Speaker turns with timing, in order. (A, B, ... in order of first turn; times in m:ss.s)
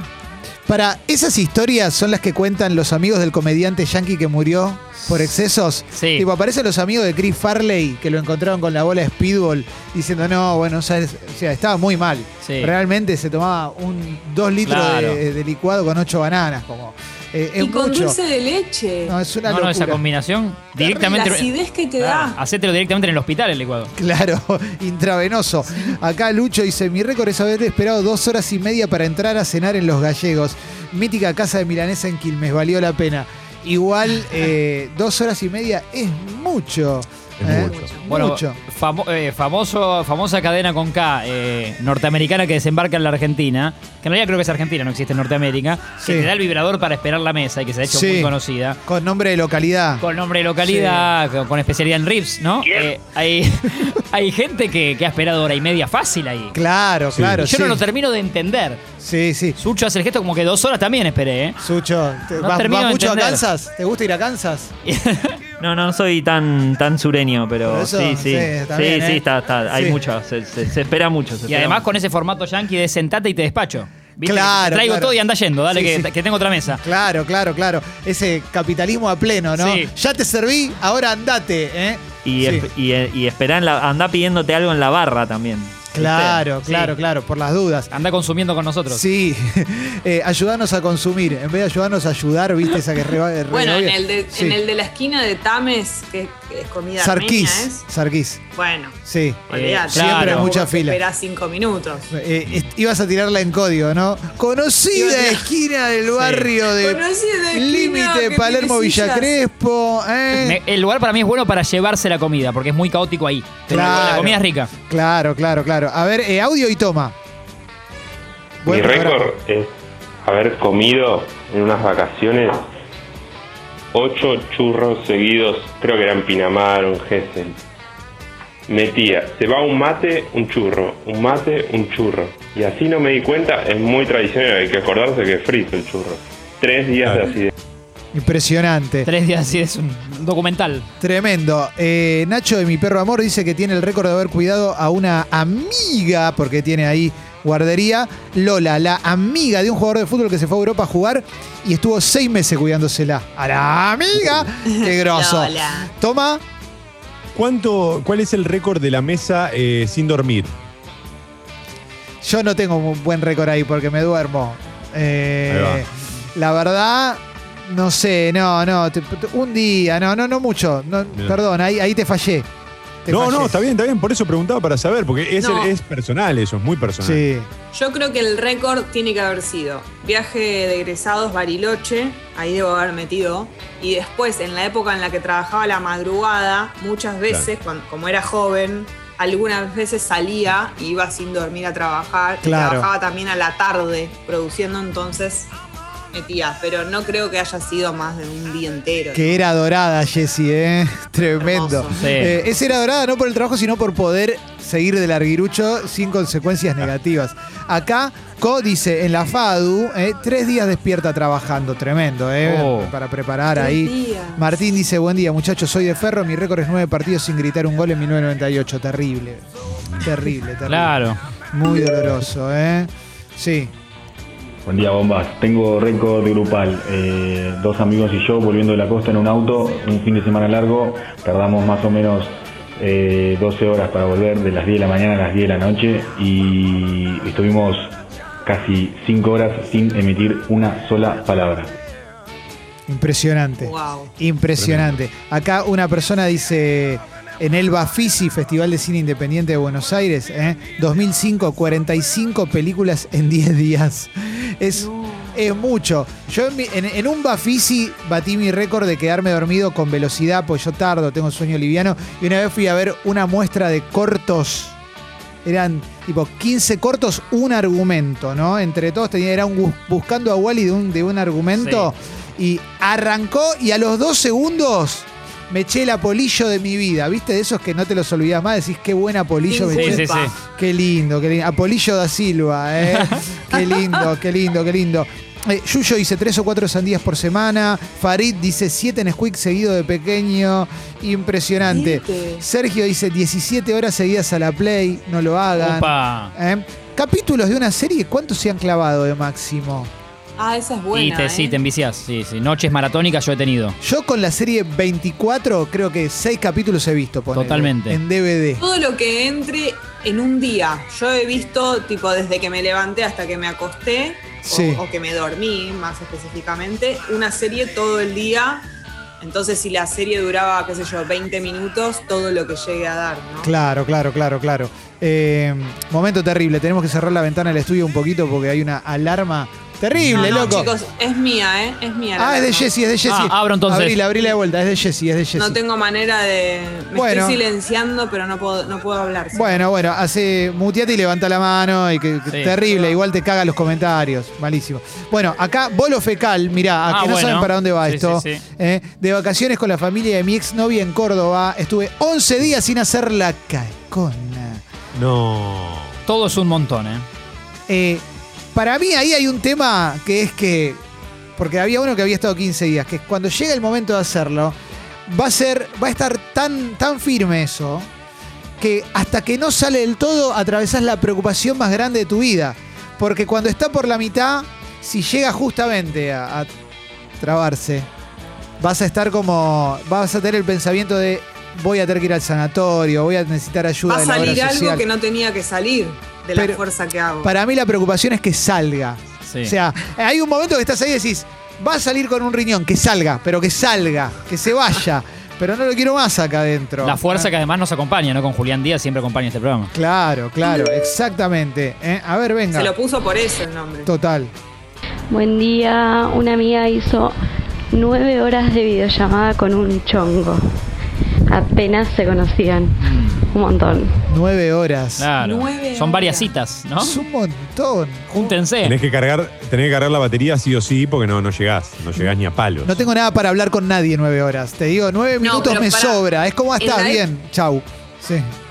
0:00.7-0:18.2 A
0:05.9-0:06.3 B
0:12.4-0:12.7 B
0:14.6-0:15.2 B
0:17.6-0:19.2 C
0:19.1-0:20.0 A
0:19.5-0:23.9 B
0:20.8-0:22.4 C
0:24.0-0:38.6 A
0:37.4-0:37.9 D
0:37.5-0:38.0 C
0:38.1-0:48.8 B
0:46.0-0:46.3 A
0:47.9-0:48.3 A
0:48.8-0:50.0 A
0:50.0-0:56.6 B
0:50.6-0:51.1 A
0:56.5-0:57.8 A
0:57.1-0:57.5 D
0:57.4-0:58.8 B
0:59.0-0:59.6 A
0:59.6-1:01.6 B
1:01.6-1:04.7 A
1:02.4-1:03.4 B
1:04.9-1:05.4 B
1:05.6-1:11.8 E
1:07.6-1:10.0 A
1:11.5-1:16.8 B
1:14.2-1:15.1 A
1:15.7-1:16.1 A
1:16.8-1:22.7 A
1:19.6-1:19.9 B
1:22.2-1:25.8 E
1:25.9-1:27.9 A
1:26.0-1:26.9 B
1:27.9-1:29.0 B
1:28.9-1:34.6 A
1:33.5-1:37.8 C
1:37.0-1:38.4 A
1:38.6-1:39.0 C
1:39.0-1:41.0 A
1:39.5-1:42.1 C
1:39.5-1:40.5 B
1:42.1-1:50.6 A
1:44.9-1:45.5 C
1:46.2-1:46.5 B
1:46.7-1:49.4 C
1:50.4-1:54.7 B
1:53.7-1:57.2 A
1:58.6-1:59.3 A
1:58.7-1:59.7 F
2:00.2-2:02.7 F
2:03.9-2:07.6 F
2:08.7-2:17.5 F
2:18.1-2:19.1 A
2:19.0-2:20.9 B
2:21.0-2:36.4 A
2:34.7-2:35.9 C
2:37.3-2:40.5 D
2:42.2-2:52.5 A
2:45.5-2:45.8 D
2:53.0-2:53.6 A
2:53.1-2:57.2 D
2:55.4-2:55.7 C
2:57.0-2:57.5 A
2:57.7-3:15.5 C
3:12.4-3:12.9 A
3:16.1-3:19.4 C
3:19.1-3:39.4 A
3:21.4-3:22.1 C
3:22.0-3:22.3 B
3:32.4-3:32.9 B
3:33.5-3:34.6 C
3:40.0-3:43.7 A
3:40.7-3:41.2 B
3:44.6-4:01.7 G
4:02.9-4:24.8 A
4:03.6-4:04.1 C
4:04.6-4:04.9 D
4:14.8-4:15.4 C
4:25.4-4:59.9 A
4:31.6-4:31.9 B
4:39.5-4:40.3 C
4:39.7-4:40.3 B
4:42.9-4:43.2 B
4:51.7-4:52.4 C
4:55.6-4:56.3 B
5:00.4-5:01.6 C
5:00.9-5:03.8 B
5:03.8-5:08.6 A
5:07.3-5:08.0 B
5:08.6-5:18.7 C
5:14.4-5:14.8 A
5:19.2-5:23.5 C
5:23.4-5:30.7 A
5:30.0-5:30.3 D
5:30.1-5:32.7 C
5:32.2-5:35.6 A
5:33.1-5:34.0 B
5:35.4-5:39.6 C
5:36.9-5:37.4 A
5:39.3-5:54.6 A
5:42.3-5:42.5 B
5:46.9-5:48.4 B
5:54.9-5:56.0 D
5:56.1-5:57.1 B
5:57.7-5:58.0 A
5:58.6-6:00.8 A
6:01.4-6:04.6 A
6:05.1-6:07.9 A
6:08.6-6:16.5 A
6:17.2-6:17.9 A
6:18.6-6:24.8 A
6:23.9-6:27.3 C
6:27.2-6:37.3 A
6:29.3-6:29.5 B
6:36.8-6:39.7 B
6:39.7-6:42.7 A
6:42.5-6:43.9 C
6:43.8-6:44.3 A
6:45.1-6:47.2 H
6:47.7-6:50.4 H
6:51.3-6:54.1 H
6:52.8-6:53.2 B
6:54.1-6:55.1 A
6:55.0-6:57.0 B
6:55.2-6:56.3 C
6:56.8-6:58.4 A
6:58.2-6:58.8 B
6:58.6-7:02.8 D
7:02.6-7:08.3 A
7:05.2-7:06.0 C
7:06.6-7:07.0 C